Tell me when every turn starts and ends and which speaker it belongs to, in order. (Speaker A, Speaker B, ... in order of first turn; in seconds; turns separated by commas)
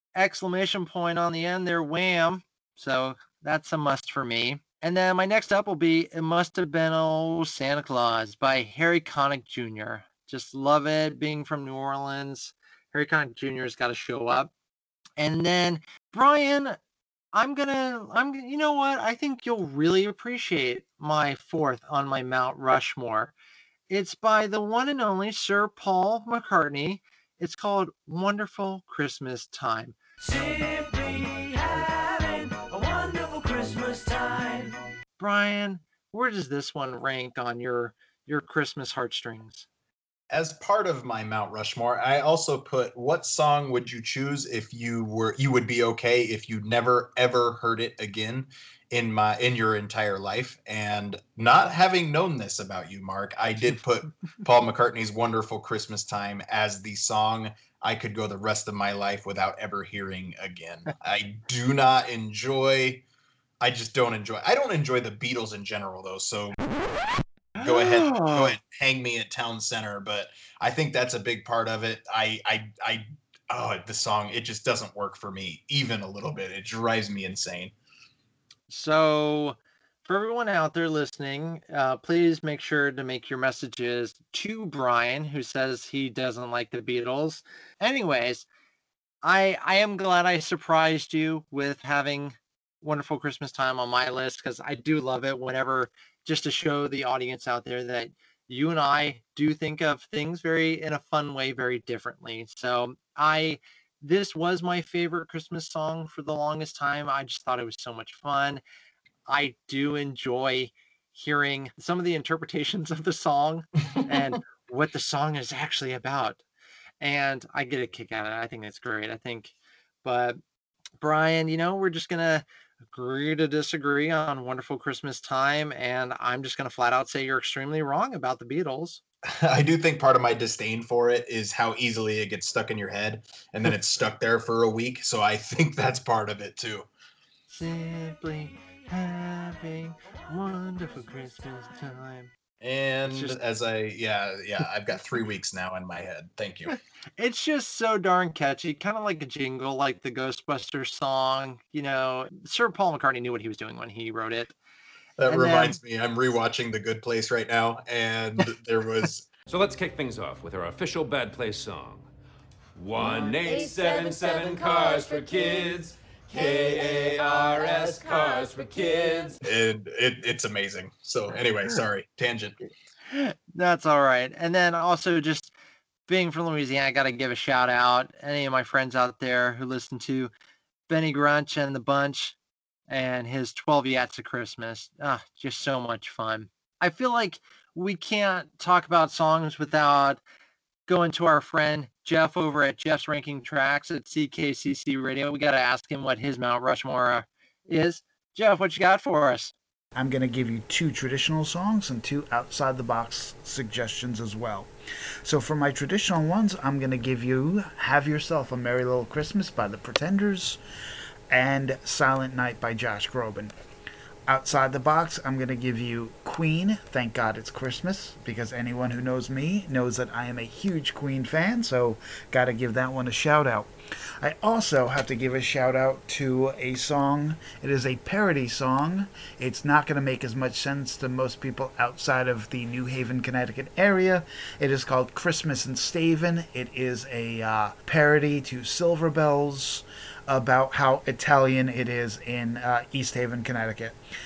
Speaker A: 0.1-14.5, Speaker A: 15.2-16.8, Speaker A: 17.3-23.3, Speaker A: 23.9-30.0, Speaker B: 32.0-34.7, Speaker A: 35.2-39.7, Speaker C: 40.3-63.0, Speaker C: 63.6-66.6, Speaker A: 67.5-68.5, Speaker C: 67.5-77.7, Speaker A: 78.7-88.5, Speaker A: 89.2-108.6, Speaker A: 109.3-116.4, Speaker A: 117.0-119.5, Speaker A: 120.0-120.4, Speaker A: 121.0-129.0, Speaker C: 129.3-136.9, Speaker A: 137.5-142.3, Speaker C: 142.6-146.7, Speaker A: 143.1-143.4, Speaker A: 146.7-154.5, Speaker C: 155.2-159.3, Speaker A: 155.3-155.8, Speaker D: 159.5-162.1, Speaker D: 162.8-169.4, Speaker C: 169.4-172.6, Speaker A: 173.1-175.5, Speaker A: 176.1-180.3, Speaker A: 180.9-182.3, Speaker A: 182.9-190.2, Speaker A: 190.9-199.5, Speaker E: 199.9-204.7, Speaker E: 205.2-210.6, Speaker E: 211.3-213.5, Speaker E: 214.3-244.0